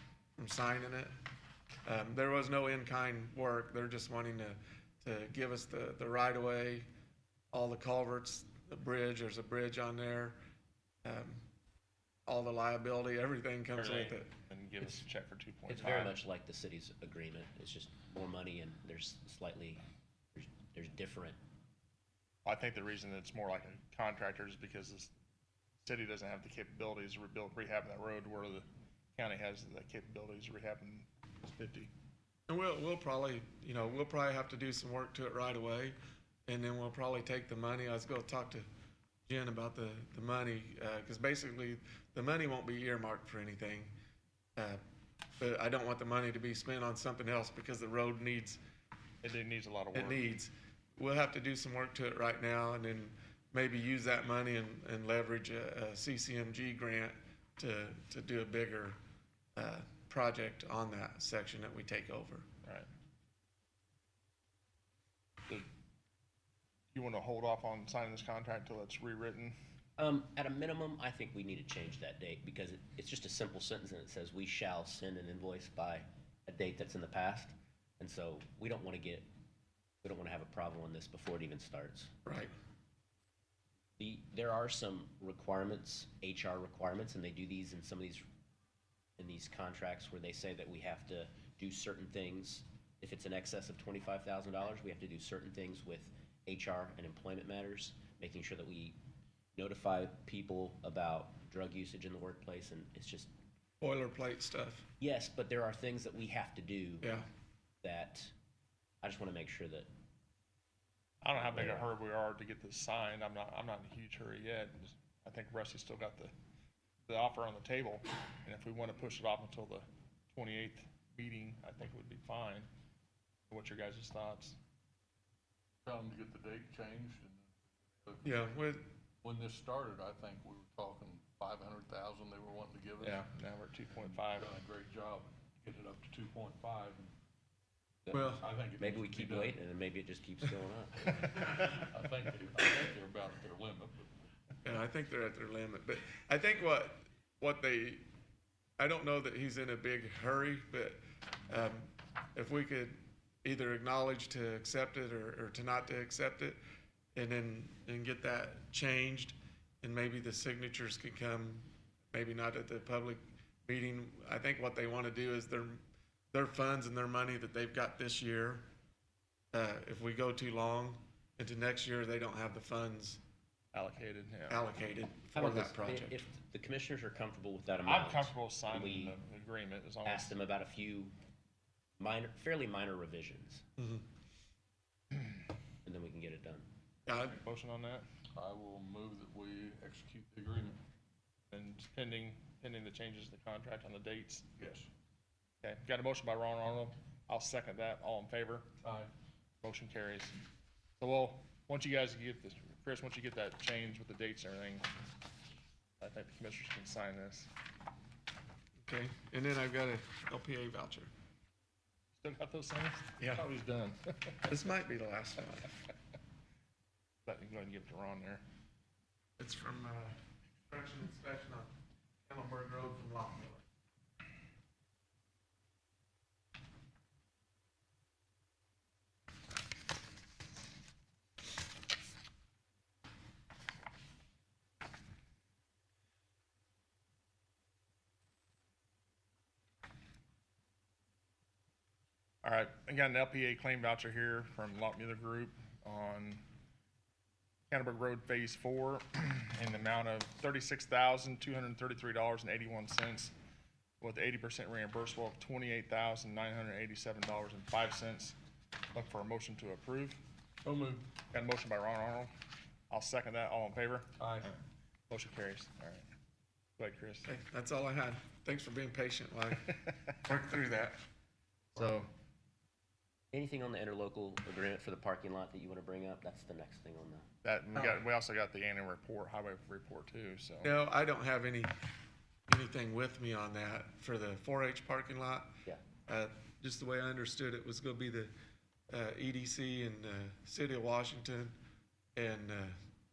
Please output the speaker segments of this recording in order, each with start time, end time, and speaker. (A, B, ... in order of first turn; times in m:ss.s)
0:00.4-0:01.1 A
0:01.8-0:06.9 A
0:07.5-0:10.4 A
0:11.0-0:11.4 A
0:12.2-0:14.3 A
0:13.7-0:16.2 B
0:15.7-0:19.8 C
0:20.3-0:21.4 C
0:22.4-0:25.1 B
0:25.8-0:31.9 B
0:32.5-0:36.0 A
0:36.5-0:38.7 A
0:39.3-0:43.9 A
0:45.4-0:48.6 A
0:49.2-0:50.2 B
0:49.9-0:59.0 A
0:59.6-1:02.5 A
1:06.9-1:09.6 B
1:10.0-1:19.2 C
1:20.0-1:22.1 C
1:22.2-1:22.5 A
1:24.0-1:28.2 C
1:29.2-1:39.0 C
1:39.5-1:43.3 C
1:43.8-1:44.9 A
1:45.0-1:47.1 C
1:47.0-1:47.3 A
1:47.8-1:48.3 C
1:49.0-1:49.9 C
1:51.2-1:56.3 B
1:51.4-1:51.8 C
1:57.0-2:02.7 B
2:03.5-2:04.6 B
2:05.8-2:08.5 D
2:08.2-2:08.8 A
2:09.2-2:13.2 D
2:13.0-2:14.5 B
2:14.1-2:17.1 D
2:18.0-2:21.2 C
2:18.1-2:18.4 A
2:18.4-2:19.6 D
2:21.2-2:24.0 D
2:24.6-2:28.0 A
2:28.8-2:36.6 A
2:37.1-2:48.6 A
2:49.5-2:53.2 A
2:53.7-2:54.6 B
2:54.5-2:56.2 A
2:55.3-2:59.2 C
2:57.8-3:00.3 B
3:00.0-3:01.1 C
3:02.0-3:03.6 C
3:03.8-3:04.0 A
3:05.8-3:06.7 C
3:07.0-3:07.4 A
3:07.3-3:08.0 B
3:08.3-3:10.8 D
3:11.5-3:14.4 B
3:14.6-3:14.9 D
3:15.6-3:18.7 B
3:18.8-3:19.1 D
3:19.6-3:20.4 B
3:21.0-3:24.9 B
3:26.0-3:27.5 B
3:28.8-3:31.1 A
3:32.2-3:34.4 B
3:33.2-3:33.4 A
3:34.4-3:35.7 A
3:37.2-3:38.4 B
3:39.4-3:41.7 A
3:42.2-3:43.6 A
4:02.4-4:06.4 B
4:07.7-4:13.3 B
4:14.0-4:18.4 B
4:18.9-4:20.2 B
4:20.6-4:21.1 D
4:21.3-4:22.3 B
4:22.9-4:24.6 B
4:24.2-4:24.5 D
4:25.1-4:26.0 B
4:26.8-4:27.3 B
4:27.2-4:31.0 A
4:31.7-4:32.1 B
4:33.3-4:37.3 C
4:37.4-4:40.7 B
4:37.7-4:38.0 A
4:40.6-4:41.7 A
4:42.5-4:45.5 A
4:46.1-4:48.3 A
4:48.9-4:51.5 A
4:52.2-4:52.7 A